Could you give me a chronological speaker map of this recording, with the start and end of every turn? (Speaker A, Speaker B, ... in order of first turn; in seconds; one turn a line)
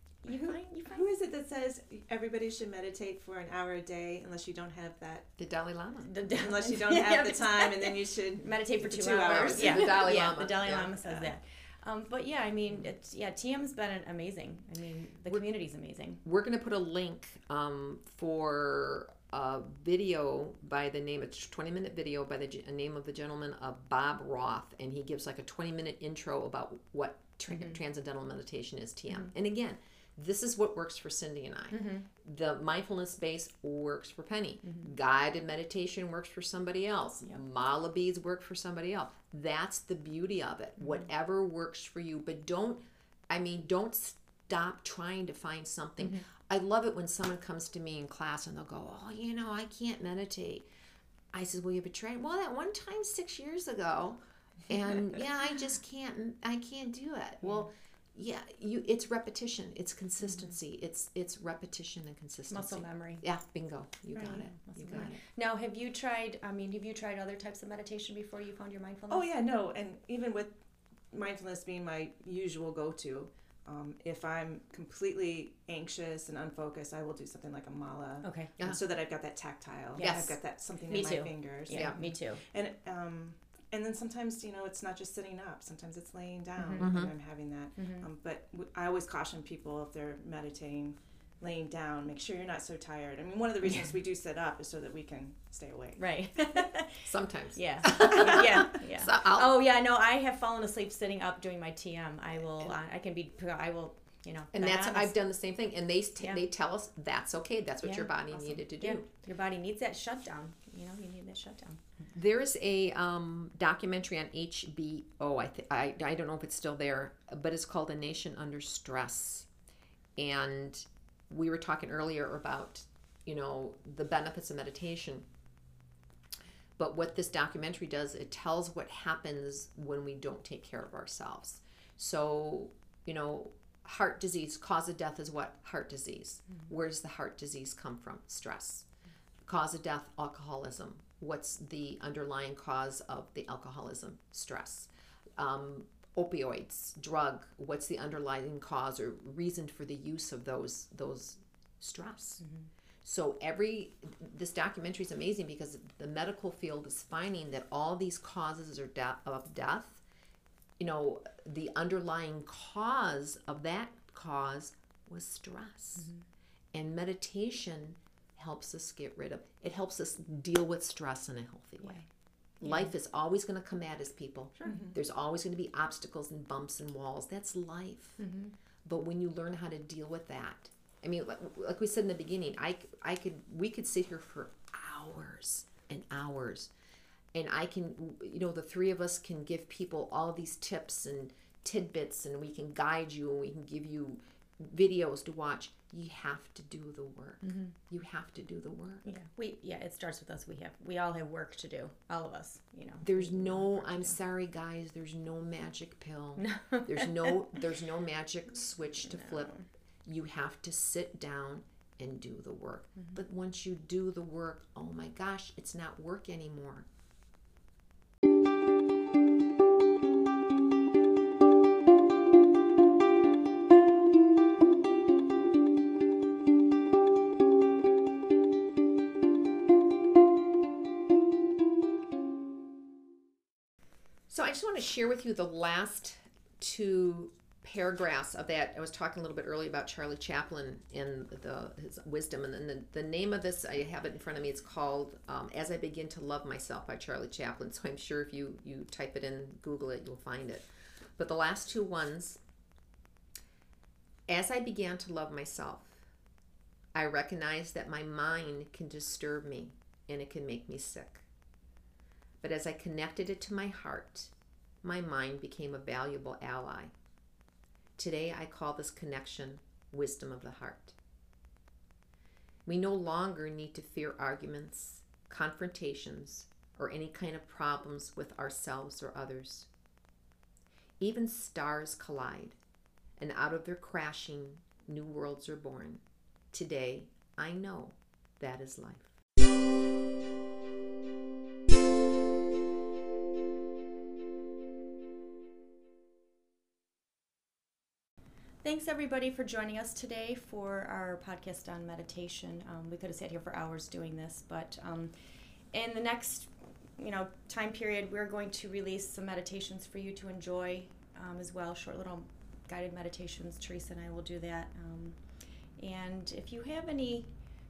Speaker A: 0.2-1.1
Speaker B: 0.9-5.3
Speaker C: 5.4-6.1
Speaker A: 6.0-16.2
Speaker B: 6.4-10.2
Speaker C: 9.2-10.9
Speaker B: 10.9-11.3
Speaker C: 16.2-50.6
Speaker A: 27.5-27.8
Speaker A: 31.7-32.1
Speaker C: 51.3-65.2
Speaker A: 62.5-63.2
Speaker B: 64.2-64.5
Speaker A: 64.6-69.2
Speaker B: 69.1-70.5
Speaker B: 71.1-96.0
Speaker A: 78.2-78.5
Speaker A: 80.0-80.3
Speaker C: 80.0-80.3
Speaker A: 80.9-82.4
Speaker C: 81.7-82.0
Speaker A: 86.6-86.9
Speaker C: 86.8-87.1
Speaker A: 87.8-88.1
Speaker A: 96.0-105.2
Speaker C: 97.0-99.5
Speaker C: 104.5-109.0
Speaker A: 107.8-111.8
Speaker C: 112.1-119.5
Speaker C: 120.2-125.2
Speaker C: 126.8-138.8
Speaker C: 139.4-152.4
Speaker C: 153.0-160.0
Speaker C: 160.8-166.1
Speaker C: 166.7-172.0
Speaker C: 172.6-178.2
Speaker A: 172.6-172.9
Speaker A: 174.7-174.9
Speaker A: 178.2-178.5
Speaker C: 178.8-186.7
Speaker C: 187.3-199.0
Speaker A: 197.4-197.7
Speaker A: 199.0-204.2
Speaker C: 203.0-209.5
Speaker A: 206.4-207.6
Speaker A: 209.2-209.6
Speaker C: 210.0-216.9
Speaker C: 234.3-250.7
Speaker C: 251.2-252.4
Speaker C: 254.3-256.0
Speaker C: 256.9-261.2
Speaker C: 262.4-266.9
Speaker C: 268.0-270.9
Speaker C: 272.6-279.7
Speaker C: 281.0-282.6
Speaker C: 283.2-289.1
Speaker A: 298.6-305.1
Speaker A: 305.7-315.2
Speaker A: 315.8-317.3